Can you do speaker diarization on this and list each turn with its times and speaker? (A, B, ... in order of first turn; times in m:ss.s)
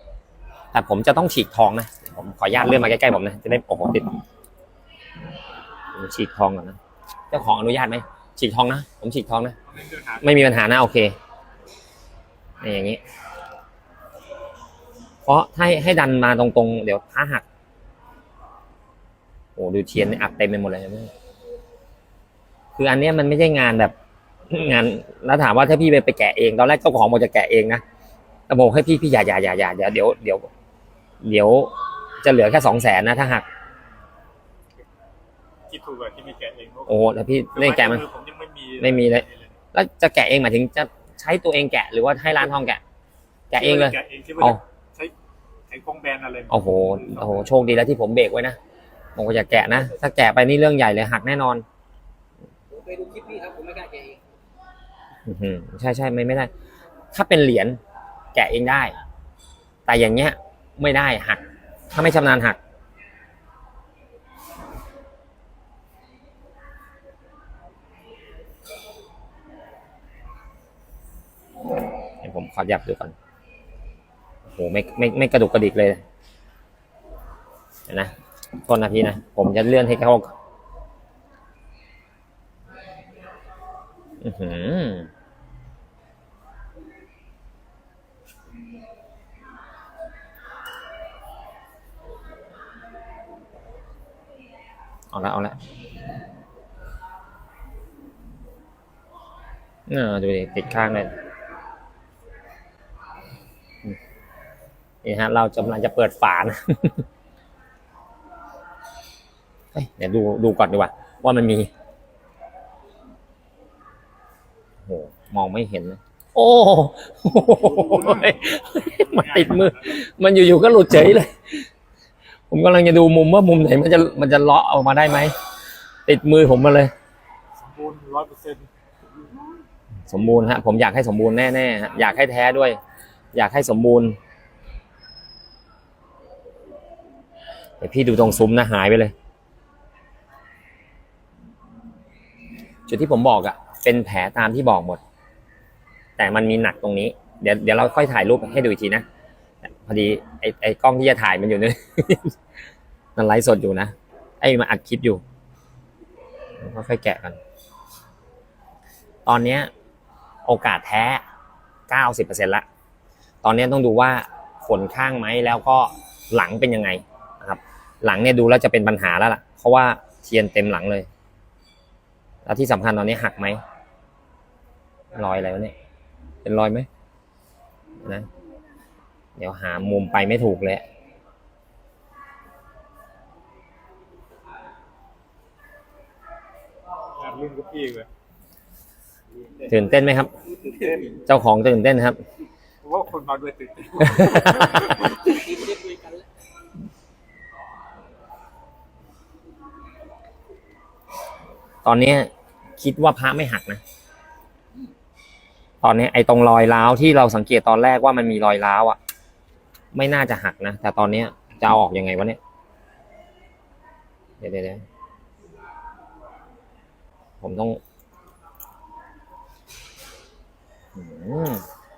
0:00.7-0:04.1 A
0:05.9-0:06.8 A
0:07.3-0:09.6 A
0:09.7-0:10.4 B
0:10.2-0:11.1 A
0:12.6-0:13.0 A
0:15.2-0:17.4 A
0:19.6-0:21.1 A
0:22.7-0:23.9 A
0:24.5-0:27.8 A
0:28.5-0:30.5 A
0:31.2-0:33.4 A
0:35.7-0:37.0 B
0:36.9-0:38.0 A
0:37.5-0:39.6 B
0:38.8-0:42.8 A
0:43.5-0:44.6 A
0:43.5-0:45.1 B
0:45.7-0:47.3 B
0:46.5-0:48.6 A
0:49.2-0:51.6 A
0:52.7-0:54.2 C
0:55.2-0:56.5 A
0:57.1-0:57.8 A
0:58.3-0:59.0 A
0:59.9-1:02.6 A
1:12.2-1:13.1 A
1:14.4-1:16.0 A
1:17.9-1:20.3 A
1:24.2-1:25.1 A
1:35.1-1:35.6 A
1:39.9-1:41.1 A
1:45.0-1:47.0 A
1:49.7-1:51.7 A
1:54.8-2:01.7 A
1:57.7-1:58.4 B
1:59.0-2:00.0 B
2:02.5-2:05.3 A
2:06.0-2:06.9 A
2:07.6-2:08.7 B
2:10.1-2:12.8 A
2:13.3-2:14.2 A
2:17.8-2:19.1 A
2:22.9-2:25.0 A
2:26.2-2:29.0 A
2:29.6-2:32.3 A
2:33.2-2:35.2 A
2:36.6-2:37.4 A
2:39.2-2:39.7 A
2:40.4-2:41.2 A
2:41.9-2:42.6 A
2:43.4-2:51.1 A
2:52.4-2:53.6 A
2:55.1-2:55.7 A
2:56.4-2:56.9 A
2:59.4-3:00.8 A
3:07.1-3:08.1 B
3:09.7-3:10.3 A
3:10.7-3:11.2 B
3:11.2-3:12.2 A
3:12.8-3:15.1 B
3:14.1-3:15.0 A
3:15.1-3:16.3 C
3:21.8-3:23.8 A
3:25.8-3:29.0 A
3:29.9-3:32.4 A
3:34.4-3:34.8 A
3:37.4-3:37.8 A
3:40.9-3:41.6 A